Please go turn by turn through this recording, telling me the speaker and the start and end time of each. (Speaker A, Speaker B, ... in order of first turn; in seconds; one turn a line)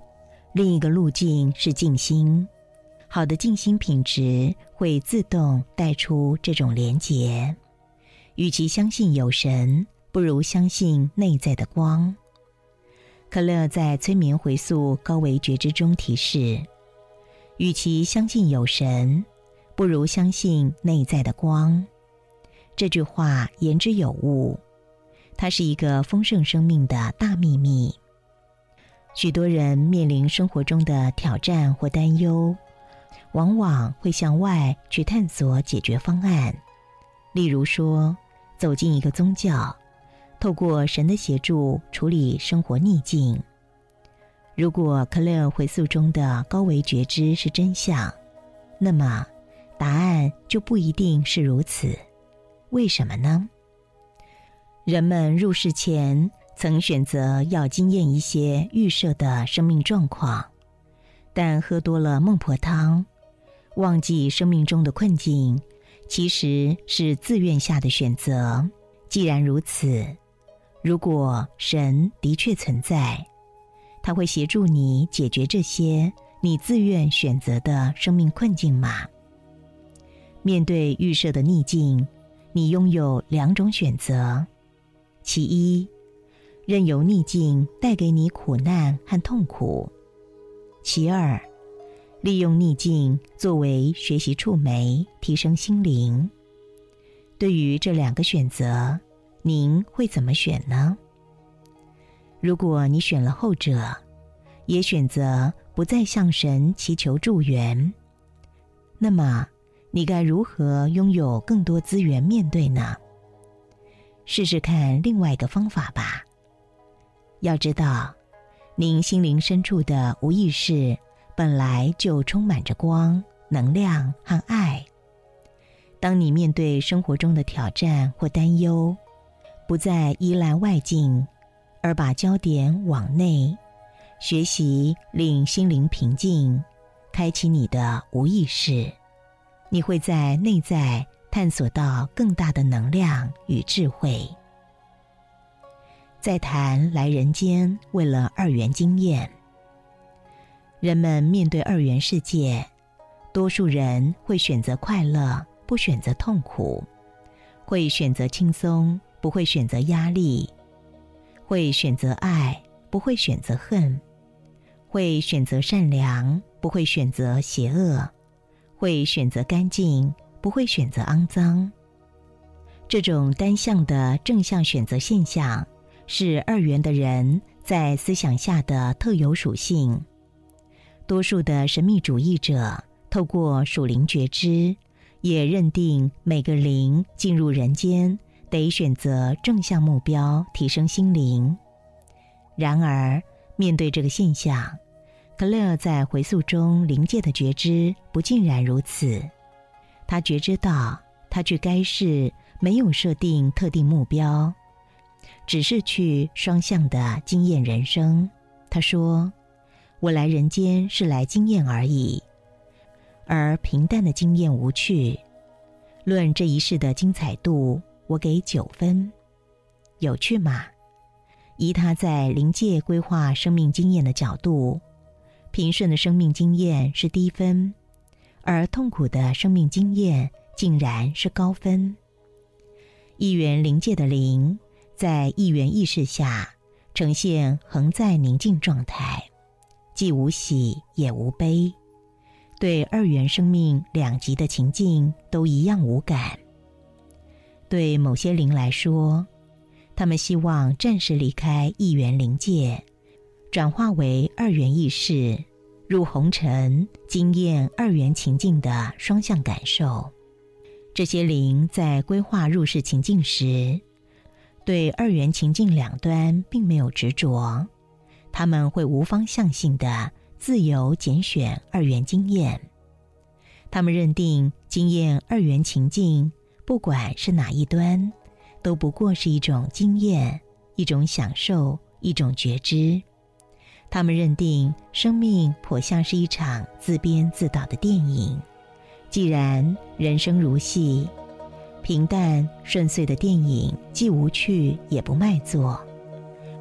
Speaker A: 0.5-2.5
Speaker A: 3.1-7.6
Speaker A: 8.4-12.2
Speaker A: 13.3-16.7
Speaker A: 17.6-21.9
Speaker A: 22.8-24.6
Speaker A: 25.4-28.0
Speaker A: 29.1-32.6
Speaker A: 33.3-36.6
Speaker A: 37.3-39.8
Speaker A: 40.4-43.5
Speaker A: 44.6-48.2
Speaker A: 48.8-52.0
Speaker A: 52.7-53.5
Speaker A: 54.9-60.5
Speaker A: 61.3-63.1
Speaker A: 63.8-70.2
Speaker A: 70.8-73.3
Speaker A: 74.0-79.1
Speaker A: 80.4-84.5
Speaker A: 85.2-85.9
Speaker A: 86.7-89.9
Speaker A: 90.8-91.5
Speaker A: 92.2-96.3
Speaker A: 97.4-101.0
Speaker A: 102.4-104.0
Speaker A: 104.7-108.0
Speaker A: 109.0-113.0
Speaker A: 114.3-116.3
Speaker A: 117.4-118.2
Speaker A: 118.8-124.9
Speaker A: 126.0-129.0
Speaker A: 129.7-131.3
Speaker A: 131.8-133.6
Speaker A: 134.2-139.0
Speaker A: 139.7-144.4
Speaker A: 146.2-149.3
Speaker A: 150.8-152.7
Speaker A: 153.3-156.9
Speaker A: 157.7-160.5
Speaker A: 161.5-164.0
Speaker A: 164.9-168.1
Speaker A: 168.8-171.7
Speaker A: 172.9-180.1
Speaker A: 181.1-191.6
Speaker A: 192.6-194.8
Speaker A: 195.4-199.3
Speaker A: 200.1-204.6
Speaker A: 205.5-209.3
Speaker A: 210.0-212.3
Speaker A: 213.3-215.2
Speaker A: 216.1-219.1
Speaker A: 220.0-220.7
Speaker A: 221.6-224.8
Speaker A: 225.5-227.8
Speaker A: 228.4-232.0
Speaker A: 233.2-239.3
Speaker A: 239.9-241.8
Speaker A: 242.6-246.4
Speaker A: 247.7-249.3
Speaker A: 249.9-252.8
Speaker A: 253.5-260.1
Speaker A: 260.9-263.8
Speaker A: 264.6-267.7
Speaker A: 268.3-272.7
Speaker A: 273.7-283.1
Speaker A: 283.9-288.4
Speaker A: 289.1-291.1
Speaker A: 291.8-295.9